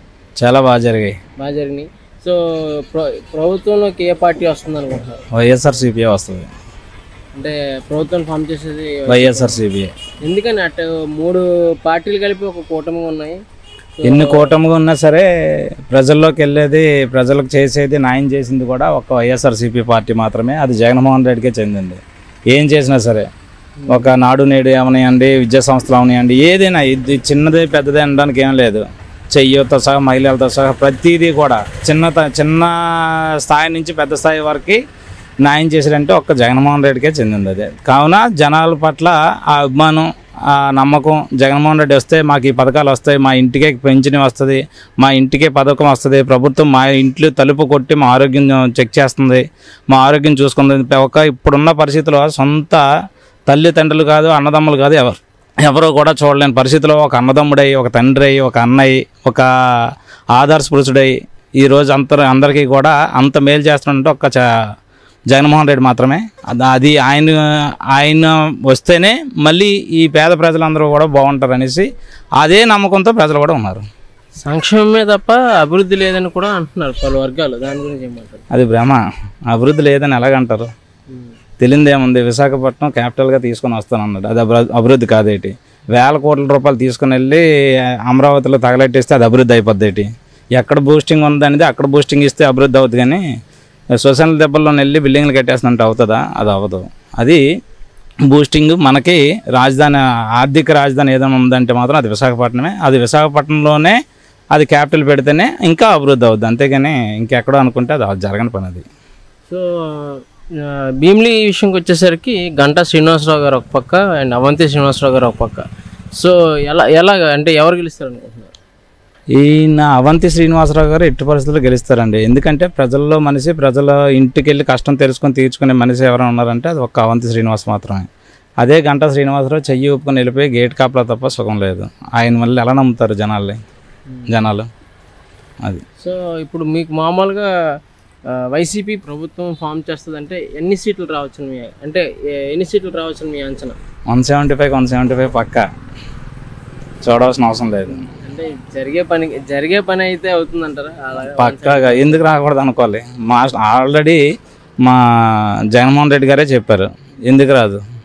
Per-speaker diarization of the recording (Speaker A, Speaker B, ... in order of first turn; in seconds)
Speaker A: 0.4-1.2, 5.3-6.5, 9.1-9.9, 14.0-22.0, 22.5-23.3, 23.9-34.8, 35.4-52.8, 53.5-64.4, 65.3-67.4, 67.9-71.9, 72.4-73.8, 78.5-80.7, 81.6-87.4, 88.1-93.2, 94.0-97.4, 98.3-104.0, 104.5-108.8, 119.4-128.1, 128.6-133.6, 134.3-134.7, 144.1-145.7, 147.0-148.1, 151.2-154.2, 154.8-157.8
Speaker B: 1.4-5.2, 7.4-9.6, 10.2-13.4, 14.0-14.6, 23.8-24.1, 74.4-78.4, 81.1-81.4, 109.5-115.6, 116.2-118.5, 136.0-137.5, 138.3-143.8, 148.1-152.2